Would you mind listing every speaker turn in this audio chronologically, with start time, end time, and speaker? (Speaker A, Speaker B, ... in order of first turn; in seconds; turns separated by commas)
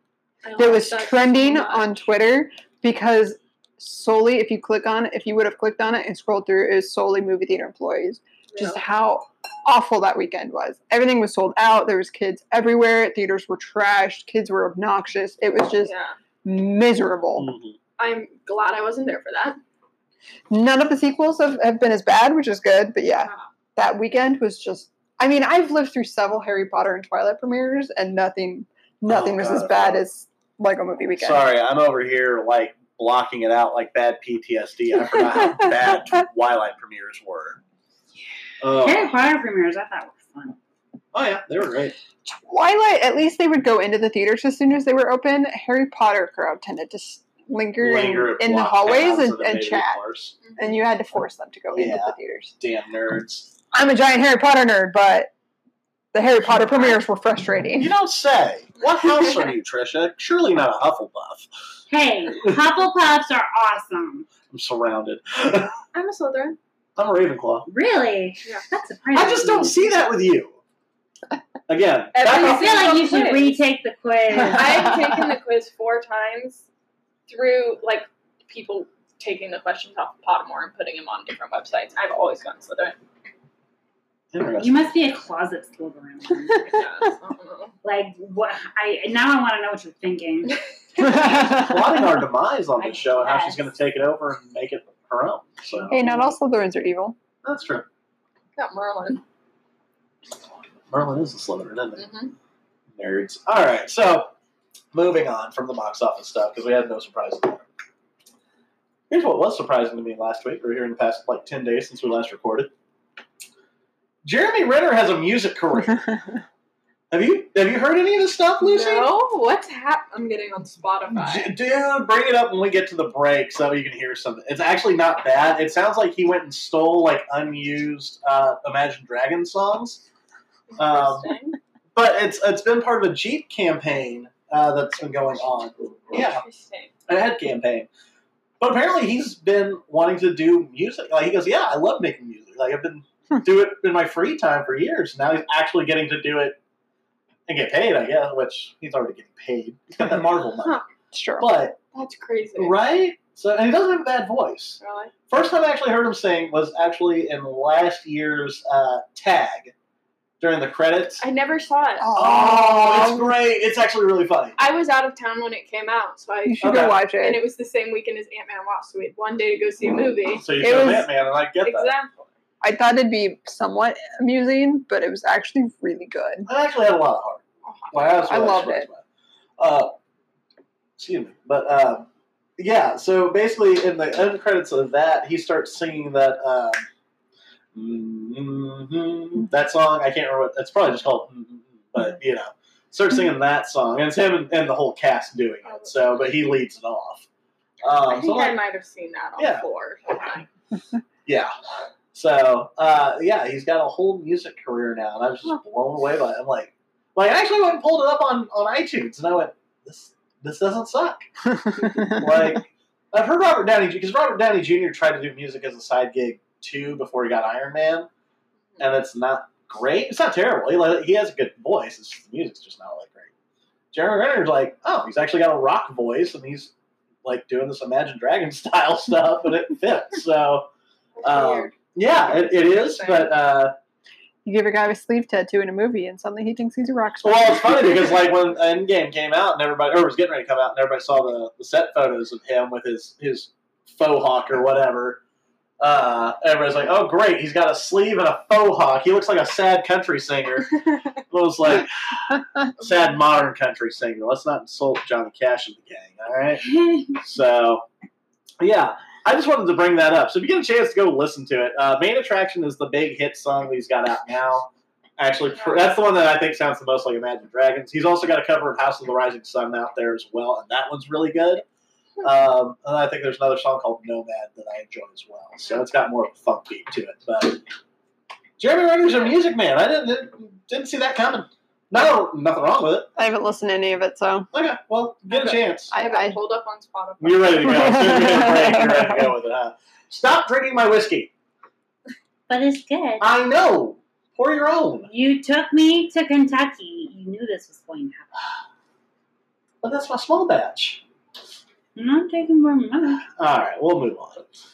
Speaker A: 0.4-1.9, Speaker B: 0.6-15.9, Speaker A: 8.5-8.8, Speaker A: 15.8-16.2, Speaker B: 16.4-17.5, Speaker C: 17.4-17.8, Speaker A: 18.0-19.6, Speaker B: 20.5-31.5, Speaker A: 23.2-23.5, Speaker C: 29.1-30.0, Speaker C: 31.2-37.6, Speaker C: 38.6-39.2, Speaker D: 38.8-40.6, Speaker C: 41.1-42.0, Speaker B: 42.2-50.0, Speaker C: 47.8-50.4, Speaker B: 50.6-52.5, Speaker C: 51.7-53.5, Speaker B: 53.7-55.3, Speaker B: 56.1-57.9, Speaker C: 57.8-61.5, Speaker D: 61.9-64.3, Speaker C: 64.5-65.8, Speaker A: 65.9-66.6, Speaker C: 67.0-67.7, Speaker D: 67.7-69.8, Speaker C: 69.1-70.6, Speaker C: 71.7-72.8, Speaker A: 72.1-73.6, Speaker D: 72.3-74.9, Speaker A: 74.3-76.7, Speaker A: 77.3-83.0, Speaker C: 84.3-84.8, Speaker D: 84.6-86.8, Speaker A: 86.7-87.7, Speaker D: 87.8-90.6, Speaker C: 91.0-96.1, Speaker B: 91.0-91.7, Speaker D: 92.8-93.6, Speaker A: 95.8-96.2, Speaker B: 95.9-97.2, Speaker C: 97.4-97.9, Speaker A: 98.6-99.2, Speaker C: 100.9-102.0, Speaker A: 102.0-102.3, Speaker C: 103.0-104.3, Speaker C: 104.9-107.6, Speaker C: 109.1-112.7, Speaker C: 114.2-116.1, Speaker C: 117.1-119.1, Speaker A: 118.6-121.5, Speaker C: 121.1-130.0, Speaker A: 130.8-131.6, Speaker C: 130.8-131.3, Speaker C: 131.9-136.4, Speaker A: 136.1-136.9, Speaker C: 137.1-137.9, Speaker C: 138.6-146.6, Speaker C: 147.5-150.8, Speaker B: 151.1-151.5, Speaker C: 151.4-151.8, Speaker A: 151.9-152.8, Speaker C: 152.6-159.7, Speaker A: 154.8-155.1, Speaker C: 160.4-161.2, Speaker A: 161.2-162.1, Speaker B: 162.0-163.3, Speaker C: 162.2-164.6, Speaker A: 164.6-170.5, Speaker B: 166.5-167.4, Speaker C: 166.6-167.0, Speaker C: 170.3-171.9, Speaker B: 170.6-171.1, Speaker A: 171.6-172.3, Speaker B: 172.6-176.5, Speaker C: 176.5-179.0, Speaker A: 177.7-178.4, Speaker B: 178.3-178.9, Speaker C: 179.6-179.9, Speaker C: 181.0-182.1, Speaker C: 182.6-186.8, Speaker C: 187.8-197.3, Speaker A: 195.7-196.2, Speaker C: 197.8-198.6, Speaker A: 198.1-200.5, Speaker C: 199.4-199.7, Speaker C: 201.3-201.5, Speaker C: 202.1-211.3, Speaker C: 211.8-218.1, Speaker C: 218.8-223.3, Speaker C: 223.9-226.7, Speaker C: 227.2-230.7, Speaker A: 231.2-233.3, Speaker C: 231.2-233.8, Speaker B: 234.4-238.1, Speaker C: 237.2-245.2, Speaker C: 245.8-257.9, Speaker C: 258.6-271.6, Speaker A: 265.5-265.9, Speaker C: 272.2-277.6, Speaker C: 278.6-283.1, Speaker B: 283.2-284.5, Speaker C: 284.5-285.9, Speaker A: 285.3-288.4, Speaker B: 285.9-286.4, Speaker C: 287.2-291.3, Speaker B: 287.9-289.1, Speaker D: 292.5-293.3, Speaker C: 293.2-295.1, Speaker D: 295.1-298.4, Speaker C: 299.8-301.0, Speaker D: 302.0-303.2, Speaker C: 303.4-304.5